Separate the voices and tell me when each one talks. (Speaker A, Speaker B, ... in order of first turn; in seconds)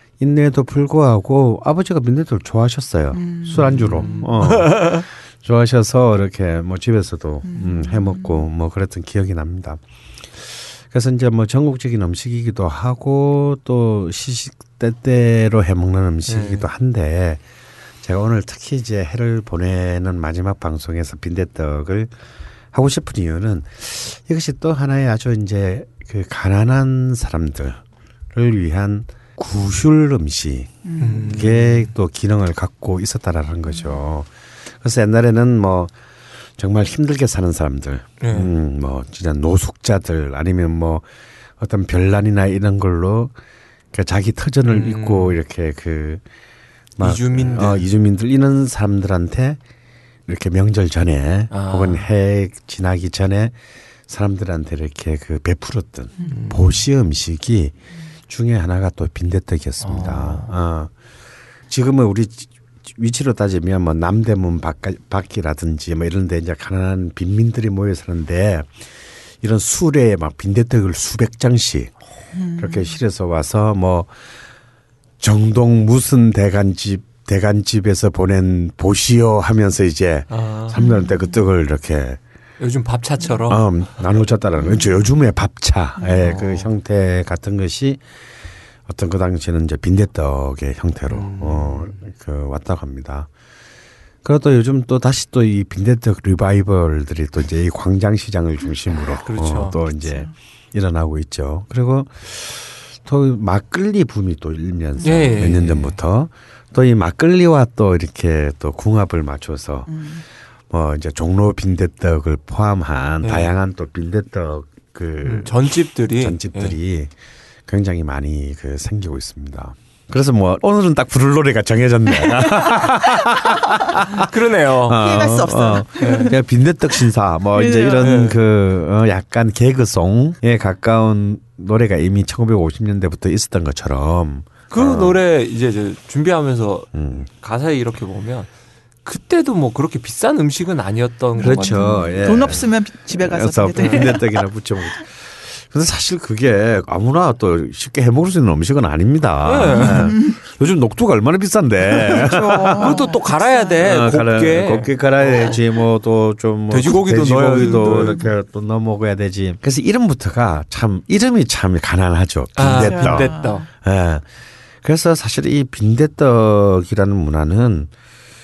Speaker A: 0.2-9.8, 10.4-17.4, 18.0-22.1, 22.7-27.8, 28.3-35.9, 36.6-41.0, 41.6-43.3, 43.9-46.2, 47.0-49.6, 50.3-53.6, 54.1-57.7, 58.3-60.9, 61.7-68.8, 69.4-71.9, 72.6-74.1, 75.2-82.2, 83.5-88.0, 88.9-93.3, 94.2-110.0, 110.7-117.1, 117.7-124.3, 124.8-135.2, 136.9-137.3, 141.4-153.0, 153.8-164.3, 164.8-167.9
Speaker B: 3.1-4.3, 7.5-8.4, 30.9-31.4, 72.3-73.0, 80.8-81.3, 105.0-105.5, 109.9-110.2, 122.3-122.9, 125.0-126.4, 127.5-128.2, 141.4-144.4, 149.7-150.3, 151.9-153.8, 157.8-158.3, 162.7-163.7
Speaker C: 3.6-5.1, 16.3-16.7, 31.0-31.9, 38.2-38.5, 44.7-45.4, 47.0-47.9, 51.5-52.1, 56.3-56.8, 59.8-60.5, 80.3-80.8, 82.6-83.7, 86.2-86.7, 91.1-92.0, 99.2-99.8, 105.0-106.0, 113.2-113.5, 115.2-116.8, 124.1-125.1, 126.0-126.3, 128.0-128.4, 134.7-136.9, 137.4-138.5, 139.1-142.6, 149.4-150.2, 152.8-155.6, 156.7-158.2, 162.6-163.7